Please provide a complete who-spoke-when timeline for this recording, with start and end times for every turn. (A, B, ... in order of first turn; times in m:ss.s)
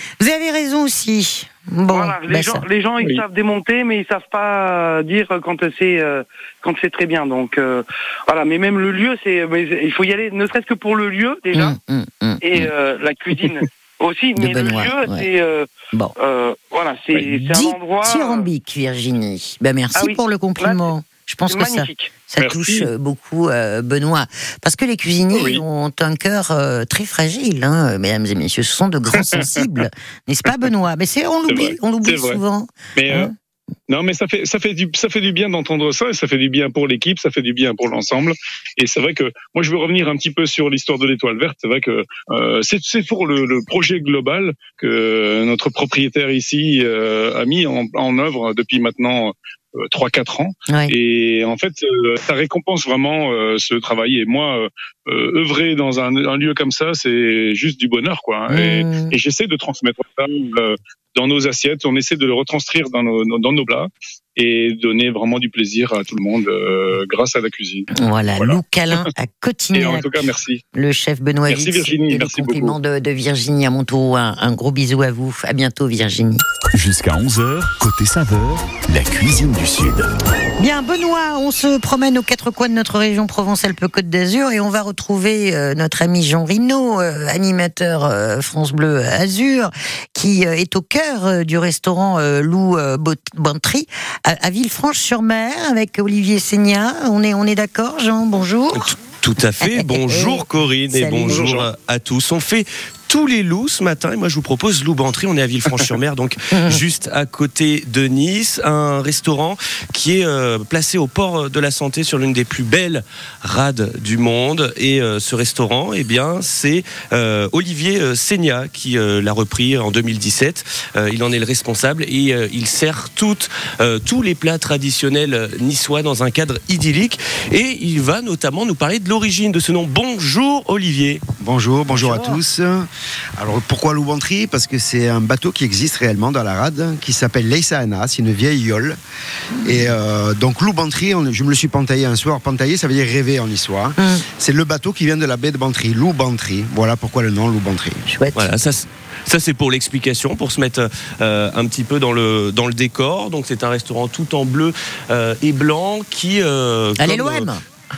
0:00.2-0:02.6 A
0:01.9-0:11.8 B
0:11.5-0:12.7 A
0:12.4-0:15.7 B
0:14.4-0:15.2 A
0:16.2-0:18.5 B
0:17.1-0:33.3 A
0:20.0-0:20.9 B
0:21.5-0:22.1 B
0:22.4-0:22.9 C
0:25.3-0:25.6 C
0:29.2-0:29.6 C
0:31.5-0:32.4 C
0:33.0-0:33.3 C
0:33.9-1:08.6 C
0:50.7-0:50.9 A
0:58.5-0:59.2 A
1:08.0-1:16.4 A
1:09.7-1:10.6 C
1:11.5-1:12.8 C
1:16.7-1:20.1 D
1:20.6-1:39.0 A
1:38.8-2:11.2 E
1:39.6-1:41.5 A
1:41.3-1:41.7 C
1:46.5-1:46.8 A
2:11.4-2:19.0 F
2:12.0-2:12.4 A
2:19.6-2:28.0 F
2:24.0-2:24.2 A
2:28.1-2:28.5 A
2:28.4-2:37.5 E
2:37.0-2:37.6 A